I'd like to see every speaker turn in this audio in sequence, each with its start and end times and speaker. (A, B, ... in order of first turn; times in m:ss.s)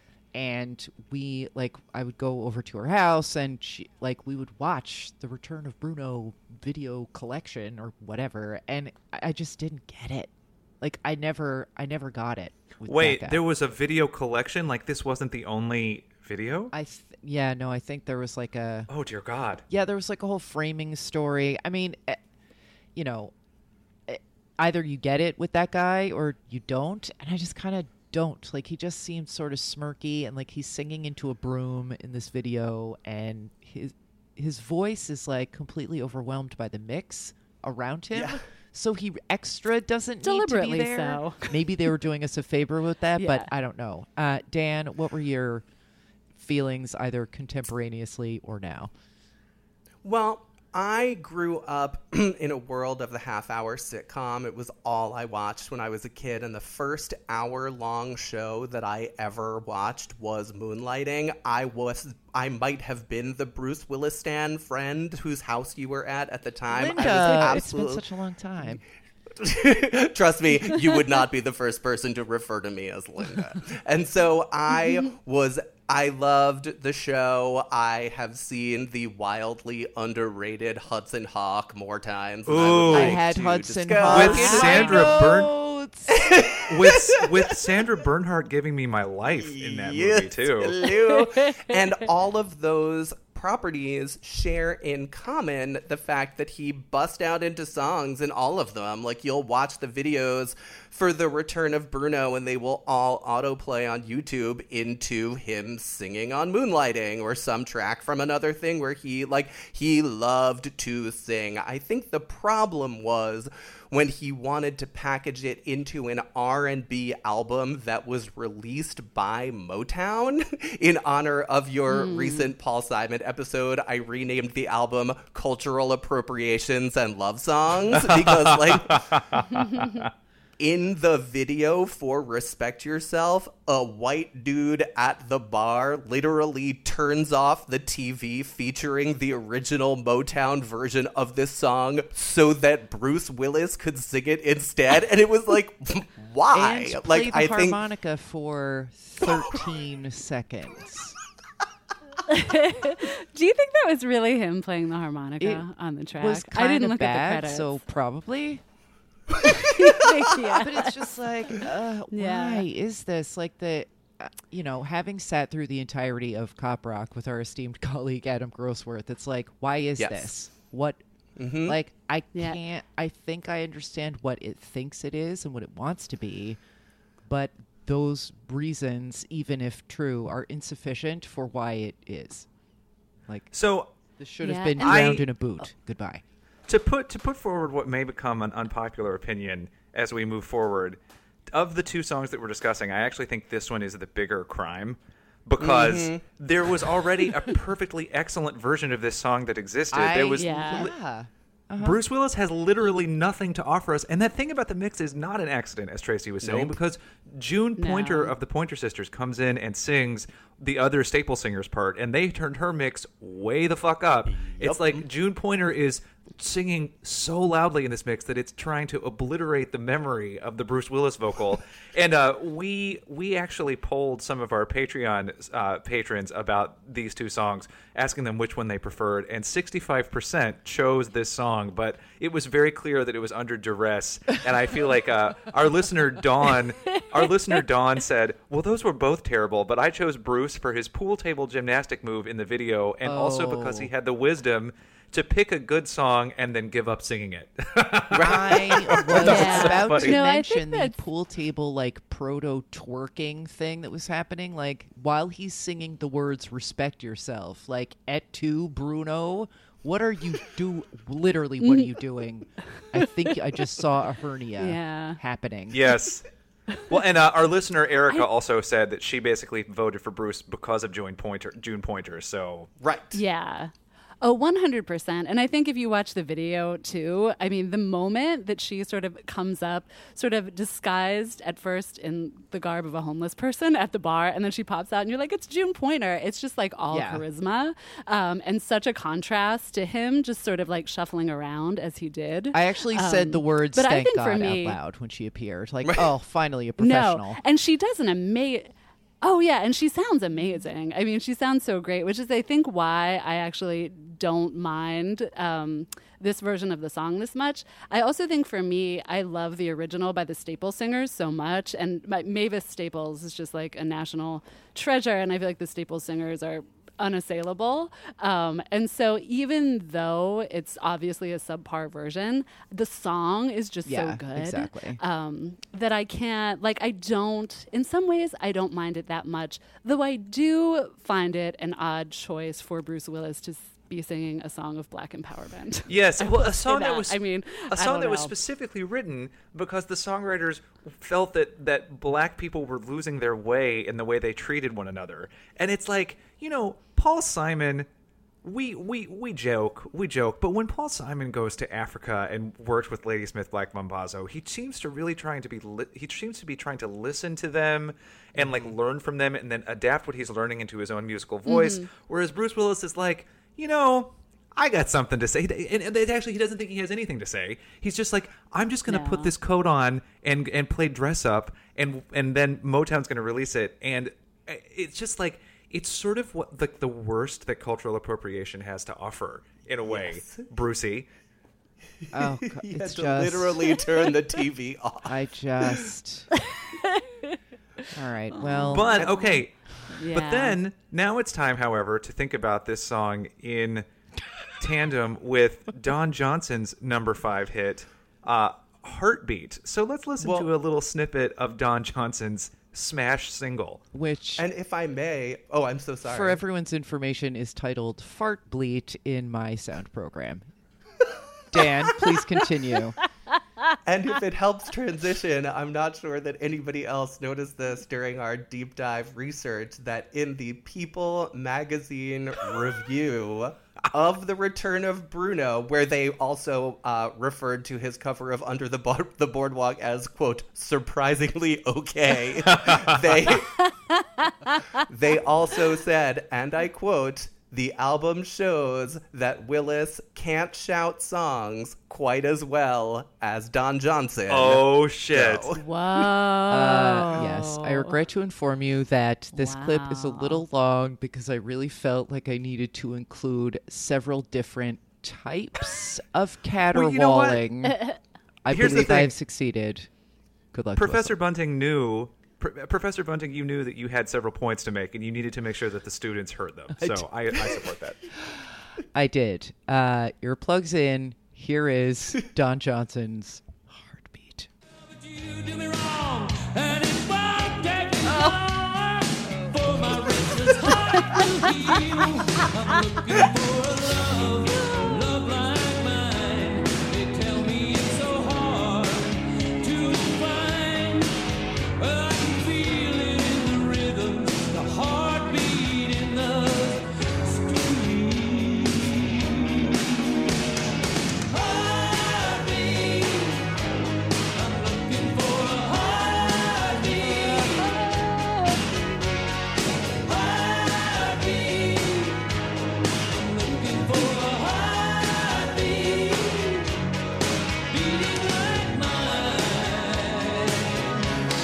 0:00.3-0:13.4 A
0:12.8-0:16.7 B
0:16.7-0:18.9 A
0:18.9-0:19.6 B
0:19.7-0:22.2 A
0:22.9-0:23.3 A
0:24.1-0:45.6 A
0:38.1-0:38.4 C
0:40.2-0:41.5 D
0:43.2-0:43.5 D
0:46.4-0:48.9 A
0:50.0-1:08.0 C
1:06.7-1:08.8 A
1:09.4-1:25.2 C
1:22.4-1:23.4 B
1:22.9-1:26.2 A
1:24.0-1:25.5 B
1:24.1-1:25.0 D
1:26.1-1:27.4 C
1:26.7-1:30.8 B
1:29.3-2:09.4 C
1:31.1-1:31.8 D
2:01.9-2:02.5 D
2:07.9-2:10.0 B
2:09.5-2:10.0 D
2:10.6-2:27.8 C
2:26.5-2:31.2 A
2:32.2-2:37.8 D
2:35.4-2:35.6 A
2:36.2-2:38.6 A
2:39.4-2:42.6 D
2:40.3-2:51.0 A
2:50.0-2:50.3 C
2:51.4-2:51.8 C
2:51.6-2:56.6 A
2:52.3-2:52.6 D
2:57.2-3:02.5 A
3:03.5-3:03.9 B
3:04.2-3:06.2 A
3:04.4-3:05.1 D
3:04.8-3:05.3 B
3:06.7-3:11.0 B
3:11.5-3:20.9 B
3:15.6-3:16.2 C
3:19.9-3:22.0 A
3:20.4-3:20.9 D
3:21.8-4:10.2 B
3:26.4-3:26.7 C
3:27.8-3:28.3 D
3:34.3-3:35.0 C
4:03.0-4:03.9 A
4:08.1-4:08.4 C
4:08.1-4:25.8 A
4:08.9-4:09.6 C
4:09.2-4:11.0 D
4:21.6-4:21.9 D
4:24.6-4:25.2 D
4:25.7-4:26.3 B
4:26.9-4:32.7 B
4:32.8-4:33.2 C
4:33.1-4:54.8 D
4:46.9-4:47.2 A
4:52.5-4:57.4 A
4:56.8-5:38.3 D
5:23.8-5:25.0 A
5:35.9-5:47.9 B
5:48.4-6:21.1 B
5:58.4-5:58.7 C
6:01.4-6:01.9 D
6:08.9-6:09.3 D
6:19.8-6:20.4 C
6:22.1-6:23.7 A
6:22.5-6:25.8 C
6:25.0-6:26.3 A
6:26.6-6:27.3 D
6:27.9-6:29.0 A
6:28.3-6:29.4 D
6:28.7-6:33.8 B
6:29.0-6:29.3 C
6:29.9-6:30.6 D
6:34.6-6:43.8 B
6:40.2-6:40.5 C
6:43.9-6:44.4 A
6:44.4-6:46.4 C
6:46.1-6:50.4 A
6:51.5-6:53.0 A
6:53.8-7:13.7 C
7:12.5-7:13.3 B
7:13.7-7:14.6 D
7:14.7-7:26.1 C
7:24.3-7:25.5 B
7:25.6-7:28.0 D
7:26.5-7:37.8 A
7:29.3-7:30.4 D
7:36.7-7:37.4 B
7:37.6-7:38.0 D
7:38.4-7:39.9 A
7:38.5-7:39.1 B
7:40.5-7:41.2 A
7:40.8-7:48.0 B
7:48.9-7:54.5 A
7:54.9-8:11.2 E
8:11.8-8:20.1 E
8:21.2-8:23.5 E
8:24.3-8:28.7 E
8:30.0-8:32.3 E
8:33.0-8:36.8 E
8:37.7-8:41.2 E